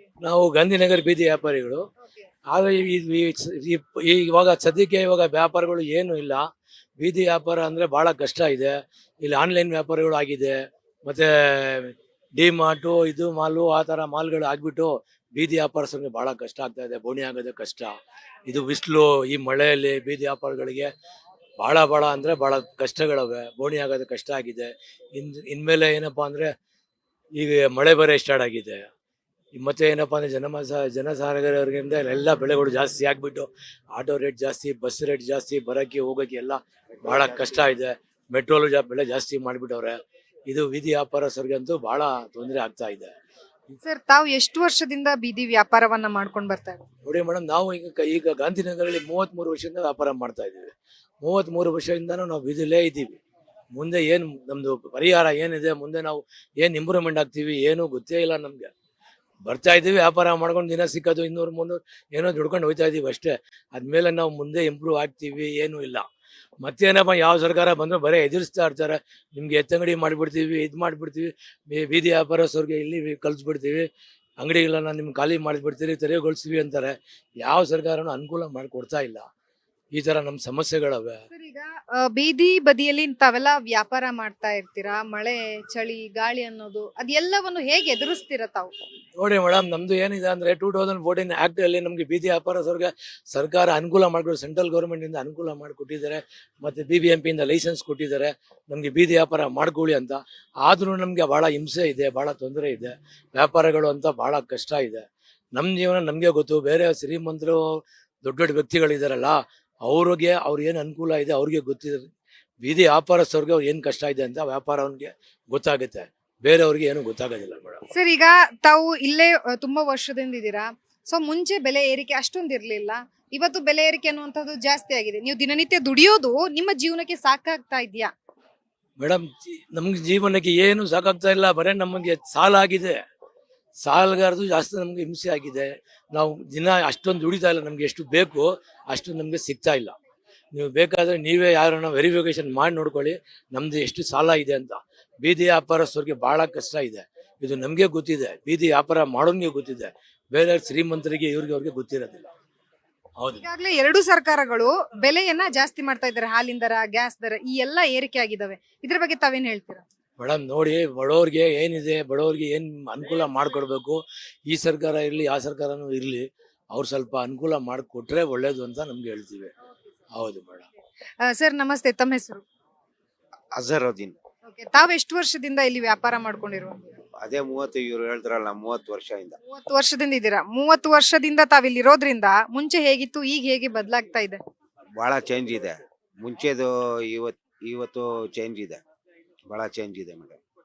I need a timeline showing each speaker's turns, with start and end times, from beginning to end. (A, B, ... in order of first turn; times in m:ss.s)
0:00.2-0:01.8 A
0:02.5-0:06.5 A
0:07.0-0:10.5 A
0:11.0-0:17.9 A
0:18.5-0:20.9 A
0:21.6-0:26.5 A
0:27.4-0:28.9 A
0:29.6-0:43.1 A
0:36.9-0:37.4 B
0:43.8-0:46.8 C
0:47.0-0:50.7 A
0:51.2-0:53.2 A
0:53.7-0:58.7 A
0:59.4-1:06.1 A
1:06.6-1:13.8 A
1:14.4-1:19.3 A
1:19.9-1:21.2 A
1:21.3-1:28.7 C
1:29.2-1:45.0 A
1:45.6-1:52.1 A
1:52.6-1:57.8 A
1:57.9-2:08.1 C
2:09.0-2:13.0 A
2:13.8-2:20.0 A
2:20.5-2:32.2 A
2:33.2-2:33.4 A
2:33.4-2:39.8 C
2:40.2-2:49.5 A
2:50.2-2:50.6 A
2:51.2-2:52.4 C
2:53.6-2:54.1 B
2:54.4-2:56.9 C
2:57.2-2:59.4 B
2:59.5-3:04.4 C
3:05.0-3:08.8 B
3:09.5-3:10.4 B